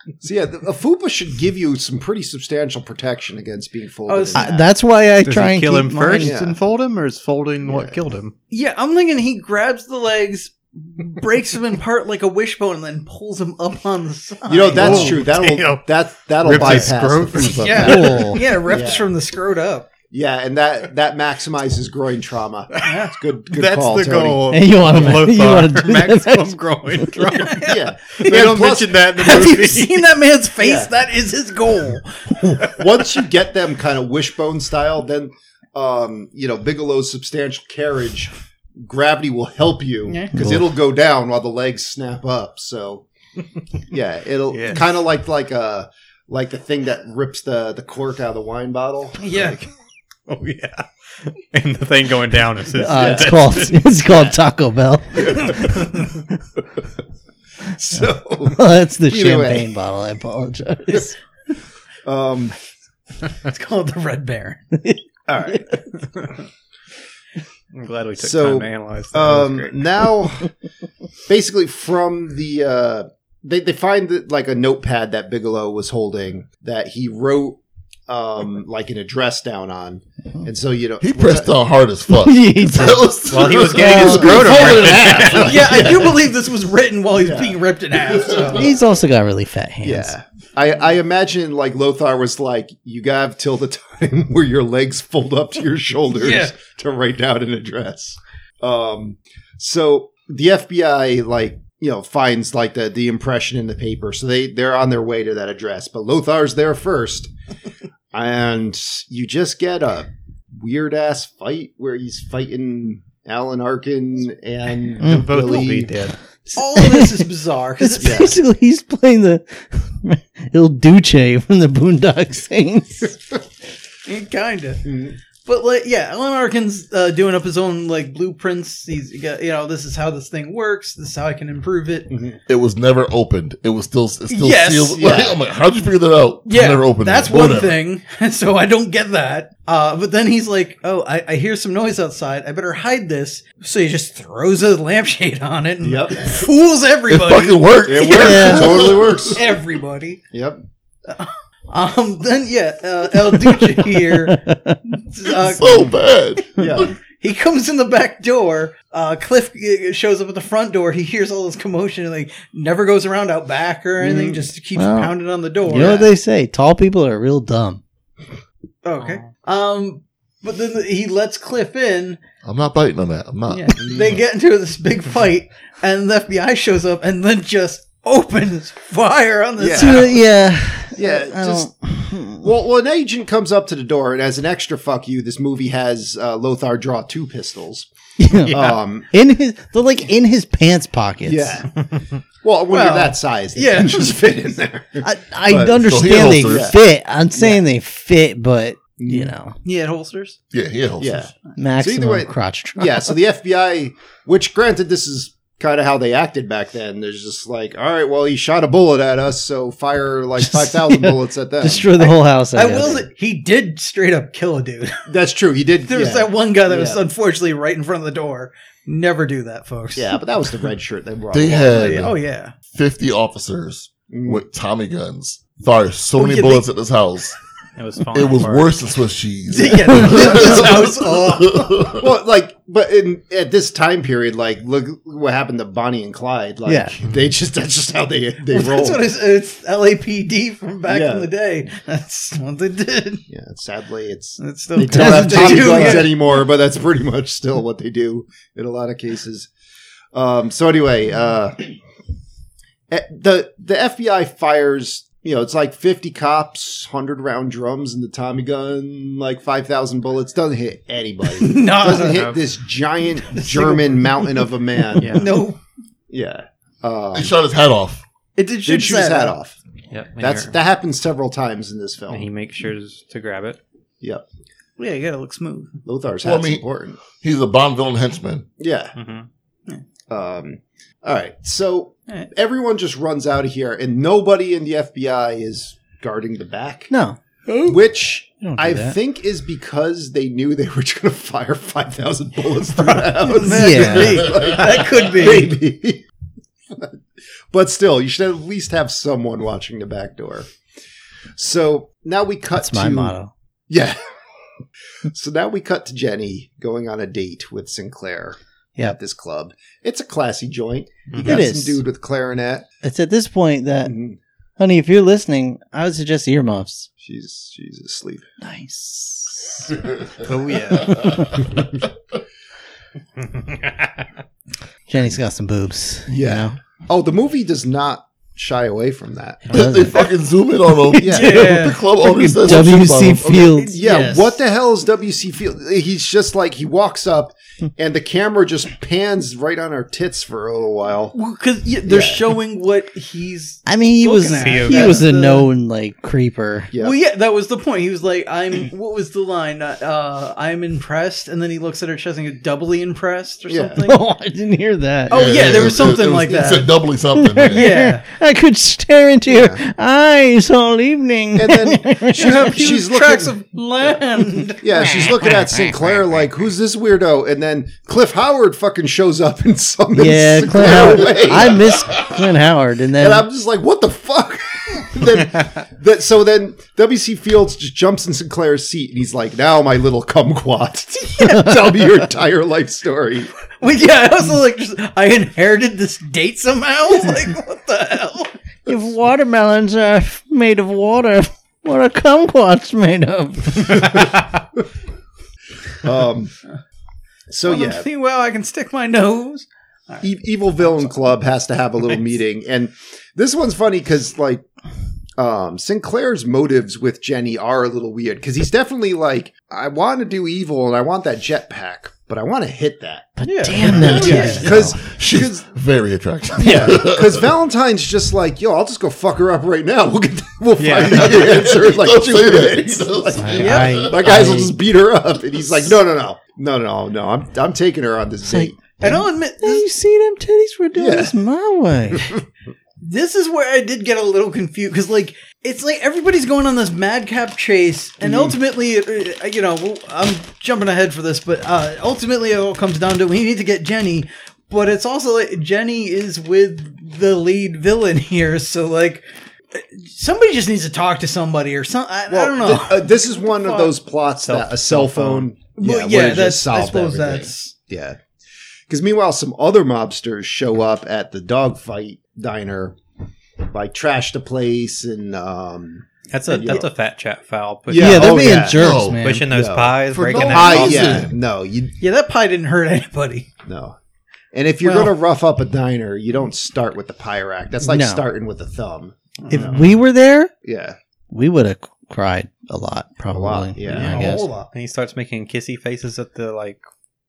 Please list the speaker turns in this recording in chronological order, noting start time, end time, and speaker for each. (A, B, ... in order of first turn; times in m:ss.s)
0:00.2-0:04.7 A
0:04.0-0:04.5 B
0:04.3-0:06.4 C
0:05.2-0:08.3 D
0:06.2-0:06.6 A
0:07.6-0:08.0 A
0:08.5-0:15.2 B
0:14.5-0:19.1 A
0:14.7-0:15.8 D
0:16.4-0:18.3 D
0:17.5-0:19.9 B
0:17.8-0:18.4 C
0:20.1-0:24.4 A
0:22.8-0:23.2 B
0:23.5-0:30.0 D
0:24.5-0:27.2 C
0:27.2-0:28.3 B
0:27.6-0:29.0 A
0:29.1-0:32.5 B
0:30.6-0:30.9 A
0:32.6-0:43.0 A
0:40.1-0:40.5 B
0:40.4-0:40.6 C
0:43.9-0:49.6 A
0:44.5-0:44.9 D
0:49.2-0:49.6 B
0:50.3-0:54.0 D
0:52.7-0:56.0 C
0:52.8-0:53.4 A
0:57.6-0:59.7 A
0:58.0-1:01.2 C
1:02.0-1:02.6 A
1:03.3-1:04.7 B
1:04.8-1:05.6 C
1:05.3-1:05.8 A
1:07.7-1:09.9 D
1:08.2-1:10.5 A
1:11.3-1:21.5 A
1:21.0-1:25.4 E
1:22.1-1:25.4 C
1:23.3-1:25.9 D
1:23.9-1:26.2 A
1:25.4-1:28.7 B
1:27.2-1:27.6 A
1:28.5-1:30.1 C
1:29.8-1:47.3 A
1:36.1-1:36.5 B
1:48.1-1:55.9 A
1:55.0-1:55.7 C
1:55.0-1:56.2 D
1:56.5-2:03.2 C
1:56.5-1:58.3 B
1:58.0-1:58.4 A
2:04.0-2:04.8 B
2:04.8-2:05.2 A
2:05.4-2:12.1 B
2:12.1-2:12.4 A
2:12.5-2:17.8 E
2:14.3-2:15.2 B
2:14.9-2:15.4 A
2:16.4-2:30.2 B
2:25.8-2:26.4 A
2:27.1-2:29.4 E
2:27.9-2:29.5 A
2:28.1-2:28.8 C
2:30.3-2:30.6 A
2:31.1-2:36.0 B
2:33.2-2:34.8 C
2:35.2-2:36.9 E
2:36.6-2:37.0 A
2:37.0-2:46.1 B
2:44.0-2:44.4 A
2:44.8-2:47.8 C
2:45.7-2:46.0 A
2:48.8-2:52.2 B
2:49.0-2:49.3 D
2:52.4-2:54.2 E
2:53.5-3:00.1 B
2:53.8-2:54.2 A
2:59.6-3:00.1 A
2:59.7-3:02.5 C
3:00.9-3:01.7 A
3:02.4-3:07.9 A
3:08.2-3:11.6 C
3:08.4-3:08.8 D
3:08.5-3:09.1 A
3:11.2-3:11.8 A
3:12.4-3:15.9 A
3:12.7-3:14.3 B
3:15.0-3:19.5 C
3:15.8-3:16.8 E
3:16.4-3:16.8 A
3:17.4-3:17.6 A
3:19.0-3:19.3 A
3:19.6-3:20.4 B
3:20.5-3:21.3 E
3:21.0-3:31.9 A
3:21.6-3:23.2 C
3:30.4-3:33.0 C
3:32.0-3:35.1 B
3:35.1-3:37.0 A
3:35.9-3:40.2 B
3:39.9-3:42.1 A
3:41.3-3:47.4 E
3:41.7-3:42.5 B
3:44.1-3:44.4 A
3:46.2-3:46.7 B
3:47.8-3:48.7 D
3:48.1-3:52.0 E
3:49.5-3:51.9 B
3:52.0-3:59.1 A
3:56.6-3:56.9 C
3:58.5-4:03.2 B
4:00.8-4:01.3 A
4:03.3-4:09.5 A
4:04.4-4:06.2 B
4:04.8-4:06.1 C
4:10.1-4:11.7 A
4:12.9-4:25.4 A
4:21.3-4:22.3 B
4:21.9-4:22.4 D
4:23.2-4:25.6 B
4:25.0-4:25.3 D
4:26.1-4:27.3 A
4:27.1-4:28.0 E
4:28.4-4:29.4 B
4:28.6-4:29.6 A
4:29.9-4:30.5 D
4:30.2-4:32.3 A
4:32.1-4:33.6 D
4:34.8-4:35.8 B
4:35.8-4:37.0 A
4:36.2-4:38.4 E
4:38.6-4:38.9 A
4:39.0-4:39.3 D
4:40.1-4:46.9 A
4:46.9-4:47.8 C
4:47.6-4:56.0 A
4:48.4-4:49.0 C
4:52.8-4:55.5 B
4:53.4-4:54.4 C
4:56.7-4:57.0 A
4:57.5-5:00.5 A
5:01.4-5:03.1 A
5:02.5-5:03.3 C
5:03.7-5:04.0 A
5:05.1-5:12.6 A
5:11.1-5:11.5 D
5:11.2-5:11.8 C
5:12.8-5:14.0 C
5:13.8-5:14.2 A
5:14.6-5:16.9 C
5:17.0-5:18.3 A
5:18.4-5:19.7 C
5:20.2-5:21.2 D
5:20.8-5:21.4 C
5:20.8-5:21.2 E
5:23.4-5:23.7 D
5:24.9-5:26.6 C
5:26.1-5:29.5 A
5:29.5-5:30.1 C
5:29.5-5:33.6 E
5:30.8-5:34.1 C
5:31.0-5:31.4 A
5:31.1-5:31.8 B
5:33.4-5:34.4 B
5:33.8-5:41.1 A
5:41.1-5:45.5 B
5:41.8-5:42.3 A
5:43.6-5:46.7 C
5:44.2-5:45.0 D
5:46.7-5:47.0 A
5:46.8-5:54.0 B
5:53.5-5:53.8 A
5:53.8-5:55.4 C
5:55.1-5:56.7 B
5:55.1-5:57.7 E
5:57.1-6:02.7 C
5:57.5-5:58.0 B
5:59.3-5:59.6 A
6:01.3-6:03.3 A
6:02.1-6:05.1 B
6:04.6-6:11.8 A
6:04.8-6:06.0 C
6:09.9-6:13.2 C
6:10.6-6:12.1 E
6:13.0-6:23.3 A
6:21.1-6:21.5 B
6:21.2-6:22.0 C
6:23.6-6:28.3 B
6:28.6-6:33.9 C
6:35.8-6:36.3 A
6:37.3-6:37.9 A
6:37.4-6:40.1 B
6:40.0-6:44.4 A
6:40.6-6:41.0 B
6:45.2-6:55.4 A
6:53.2-6:54.8 C
6:53.2-6:54.6 B
6:53.6-6:57.3 E
6:56.4-7:08.9 A
6:56.4-6:56.8 C
7:00.6-7:01.2 D
7:00.8-7:03.9 E
7:03.1-7:04.6 C
7:03.4-7:03.8 B
7:08.2-7:12.1 C
7:08.8-7:09.6 B
7:10.7-7:11.1 A
7:11.9-7:12.2 A
7:12.8-7:33.8 B
7:18.0-7:18.4 A
7:32.1-7:38.0 A
7:34.2-7:35.3 D
7:35.5-7:37.6 B
7:38.7-7:42.8 A
7:43.5-7:46.7 A
7:46.1-7:48.5 D
7:46.3-7:46.6 B
7:47.7-7:51.8 A
7:47.7-7:49.3 C
7:48.4-7:49.0 E
7:49.0-7:51.1 D
7:49.9-7:51.1 E
7:51.8-7:53.3 B
7:53.4-7:53.8 A
7:54.3-7:59.8 A
7:54.6-7:54.9 B
7:57.6-7:58.1 C
7:59.2-7:59.6 B
7:59.3-8:00.3 C
8:00.4-8:00.8 A
8:01.1-8:04.3 C
8:03.1-8:04.1 A
8:03.6-8:04.5 B
8:04.5-8:06.6 D